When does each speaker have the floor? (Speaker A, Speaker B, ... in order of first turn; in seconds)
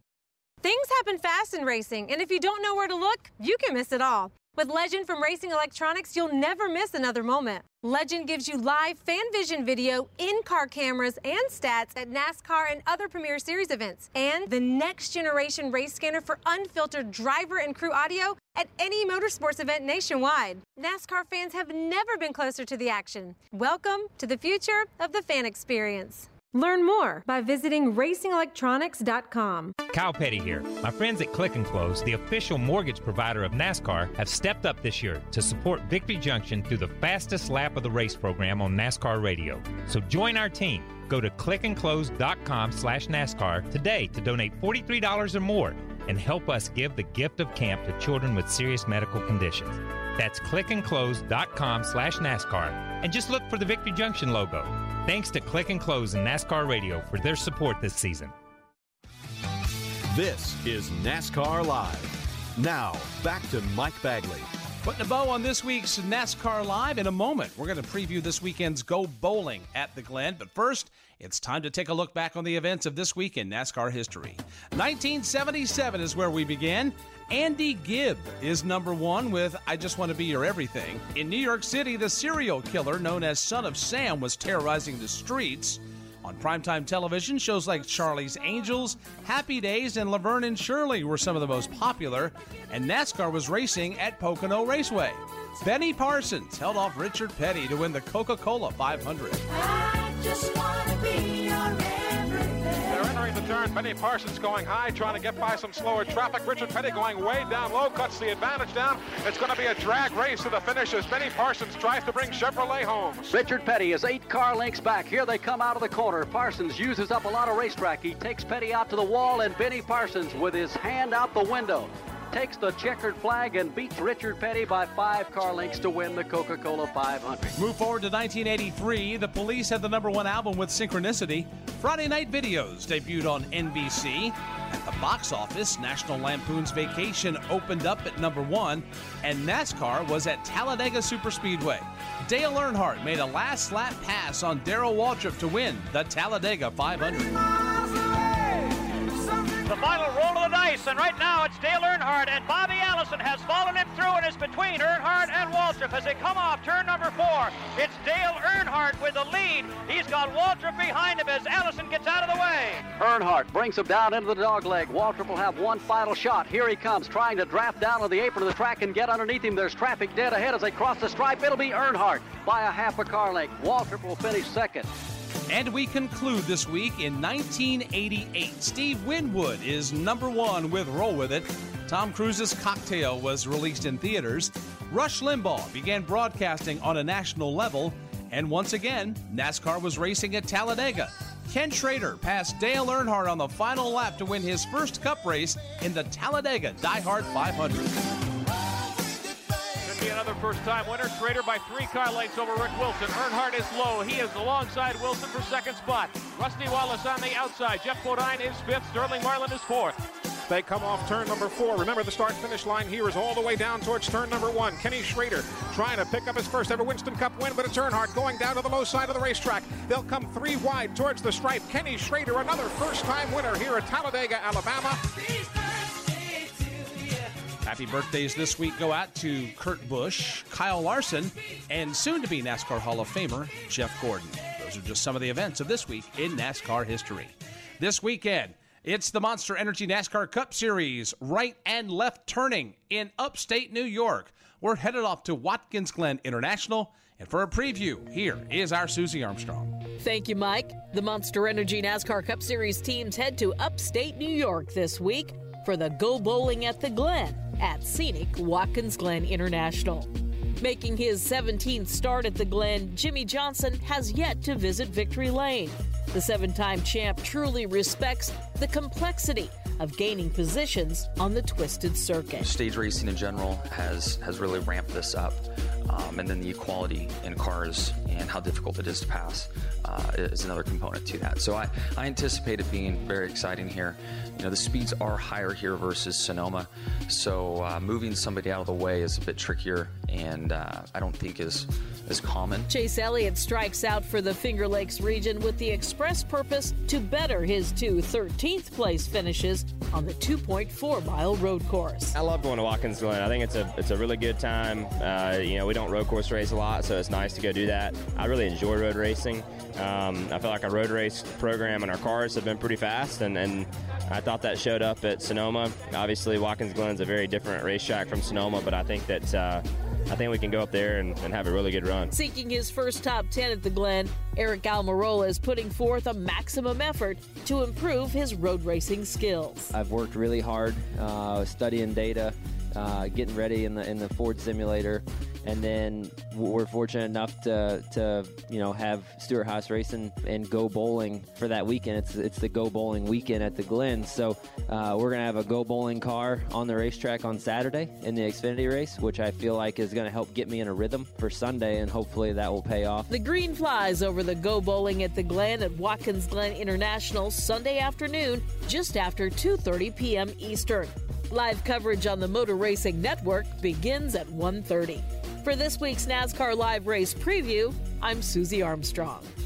Speaker A: 0.6-29.7
Speaker B: 29.8-58.3
Speaker C: 60.1-64.5
Speaker D: 64.8-99.5, 127.6-147.4, 175.5-198.0, 227.7-249.7
Speaker E: 102.8-113.3, 210.5-225.0
Speaker F: 113.3-127.5, 163.1-174.9
Speaker G: 149.7-162.5
Speaker H: 199.8-210.0
Speaker I: 250.0-272.5, 292.7-302.1, 322.1-329.7, 353.1-369.3
Speaker J: 272.4-292.7
Speaker K: 302.2-322.1
Speaker L: 329.7-353.1